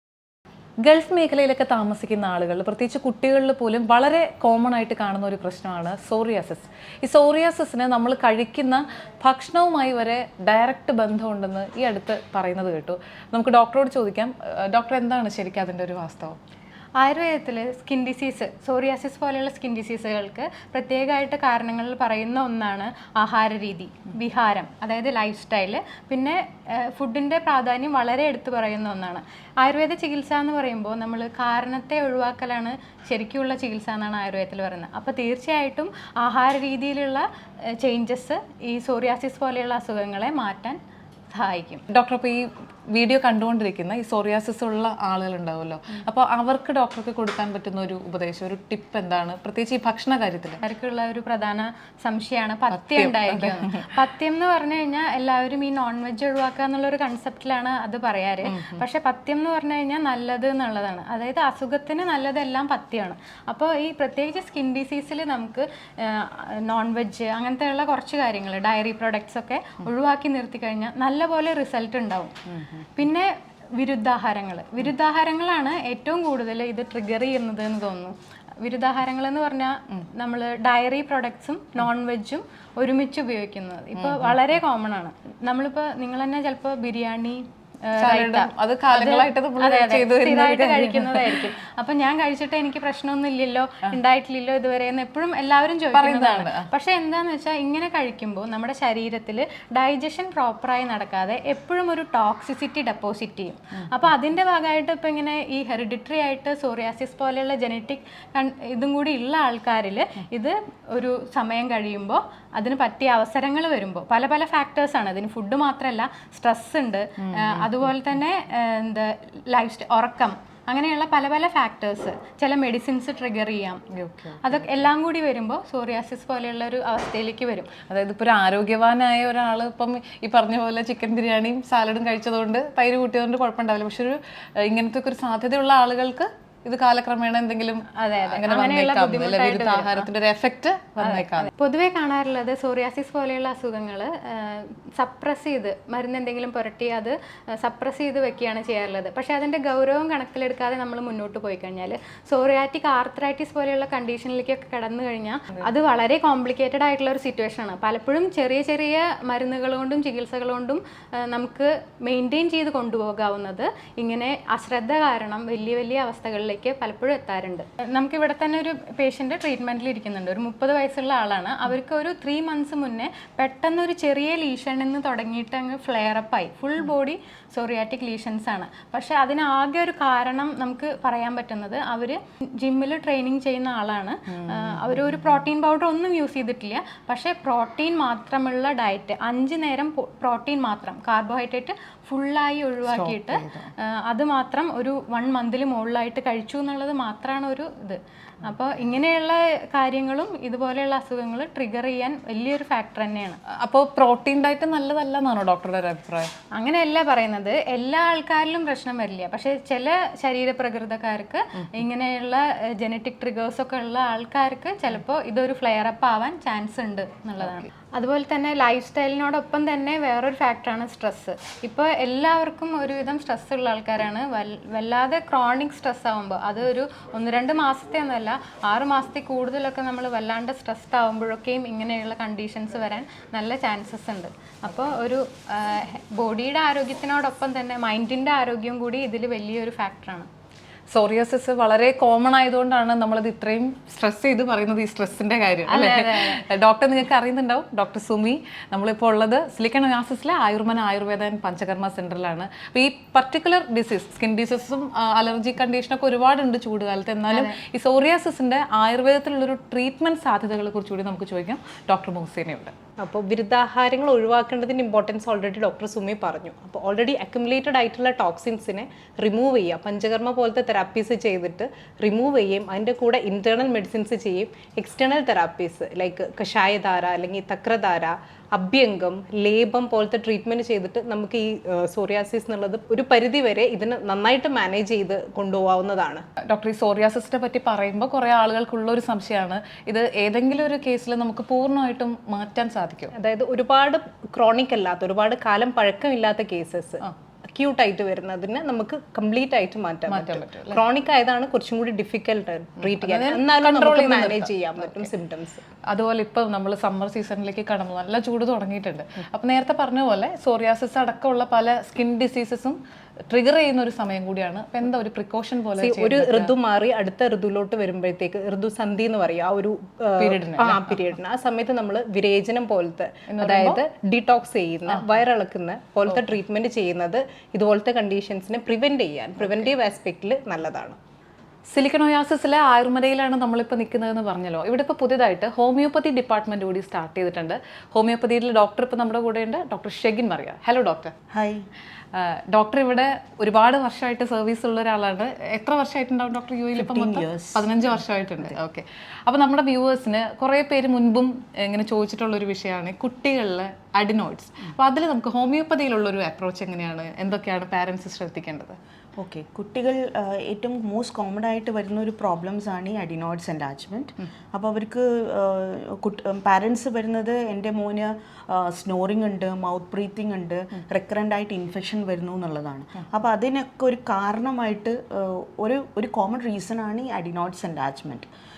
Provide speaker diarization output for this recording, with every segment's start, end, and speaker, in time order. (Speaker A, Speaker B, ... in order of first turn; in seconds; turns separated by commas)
Speaker A: 0.8-16.4, Speaker B: 17.0-37.3, Speaker B: 37.8-40.8, Speaker B: 41.3-41.8, Speaker A: 41.9-50.6, Speaker B: 50.6-72.3, Speaker A: 52.7-53.9, Speaker A: 58.5-58.8, Speaker A: 72.5-72.8, Speaker B: 73.0-123.8, Speaker A: 84.0-84.4, Speaker A: 88.0-91.5, Speaker A: 95.9-96.7, Speaker A: 117.2-117.8, Speaker A: 123.9-124.7, Speaker B: 124.4-127.8, Speaker A: 127.9-141.5, Speaker B: 137.9-140.1, Speaker B: 141.0-203.4, Speaker A: 184.4-184.9, Speaker A: 192.9-193.7, Speaker A: 203.5-206.3, Speaker B: 206.5-240.3, Speaker A: 240.9-262.7, Speaker B: 245.7-246.4, Speaker B: 257.3-257.6, Speaker C: 263.0-286.2, Speaker A: 286.5-293.1, Speaker C: 293.1-297.0, Speaker C: 297.6-305.6, Speaker A: 300.1-300.8, Speaker A: 302.8-305.1, Speaker A: 305.9-312.8, Speaker A: 313.3-316.5, Speaker C: 315.8-331.0, Speaker A: 320.2-321.0, Speaker A: 323.3-323.8, Speaker A: 331.7-341.1, Speaker D: 341.3-341.7, Speaker A: 342.1-358.8, Speaker D: 346.8-347.7, Speaker D: 359.2-378.3